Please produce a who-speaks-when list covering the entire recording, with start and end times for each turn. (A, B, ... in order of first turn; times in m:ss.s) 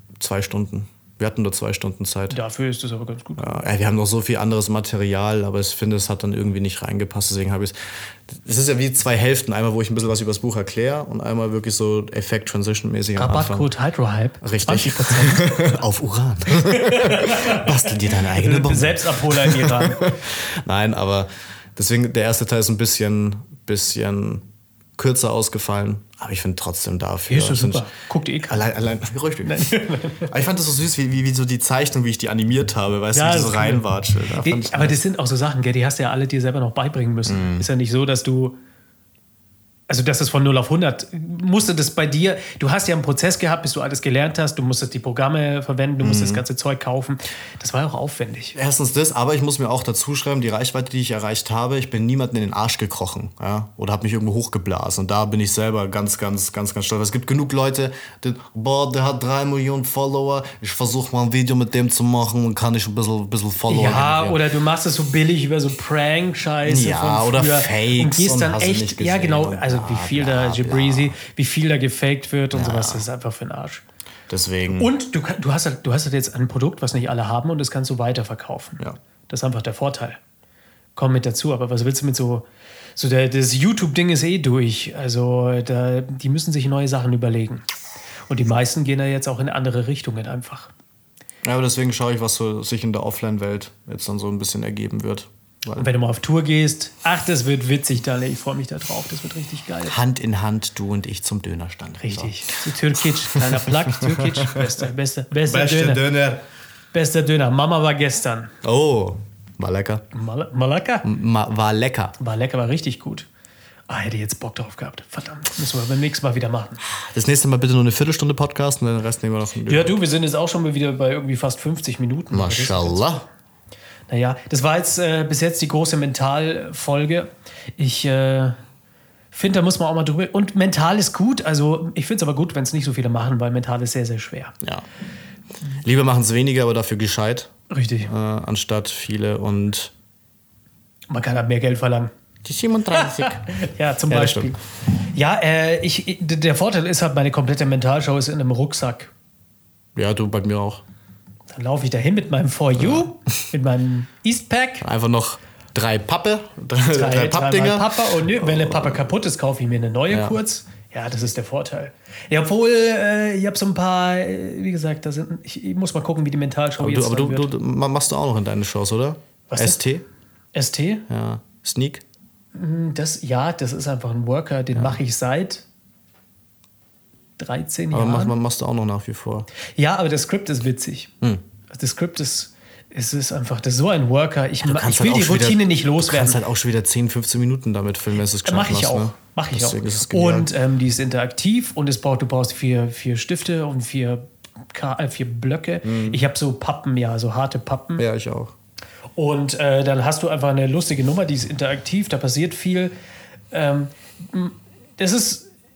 0:00.2-0:02.4 A
0:02.3-0:03.6 B
0:03.4-0:07.8 A
0:08.3-0:13.7 A
0:13.2-0:15.6 B
0:14.4-0:24.4 A
0:16.7-0:17.7 B
0:18.3-0:20.1 B
0:25.0-0:27.9 A
0:27.3-0:28.6 B
0:28.5-0:35.0 A
0:29.4-0:30.3 B
0:33.1-0:38.6 B
0:37.3-0:37.6 A
0:39.9-0:48.6 B
0:46.0-0:46.4 A
0:48.6-1:04.4 A
1:03.7-1:13.8 B
1:06.6-1:11.2 A
1:12.5-1:13.0 A
1:14.3-1:14.9 A
1:14.8-1:20.2 B
1:21.0-1:22.4 B
1:23.0-1:27.6 B
1:28.3-1:30.7 B
1:31.4-1:35.9 A
1:35.8-1:39.9 B
1:39.9-1:42.4 A
1:42.0-1:46.0 B
1:43.3-1:44.6 A
1:45.4-1:46.4 A
1:46.9-1:48.5 B
1:48.6-1:50.0 A
1:50.1-1:51.0 B
1:51.0-1:52.2 A
1:52.2-1:53.3 B
1:53.9-1:56.8 B
1:57.1-2:00.0 A
1:59.7-2:03.2 B
2:02.3-2:03.2 A
2:04.1-2:08.6 B
2:09.3-2:14.6 B
2:15.8-2:17.5 A
2:17.7-2:18.1 B
2:18.1-2:19.9 A
2:21.1-2:22.1 B
2:22.4-2:23.4 A
2:22.9-2:29.1 B
2:24.1-2:24.5 A
2:30.0-2:30.8 A
2:31.5-2:34.9 B
2:32.8-2:33.1 A
2:34.8-2:39.1 A
2:36.9-2:47.5 B
2:40.1-2:40.4 A
2:46.8-2:50.0 A
2:49.5-2:49.8 B
2:50.5-2:51.0 B
2:51.1-2:52.0 A
2:52.5-2:55.6 B
2:54.7-2:55.0 A
2:57.4-2:58.4 B
2:57.9-2:59.5 A
2:59.8-3:01.1 B
3:01.7-3:06.4 B
3:04.6-3:10.5 A
3:08.4-3:18.0 B
3:15.8-3:16.2 A
3:18.0-3:18.5 A
3:19.2-3:22.9 B
3:23.5-3:25.5 B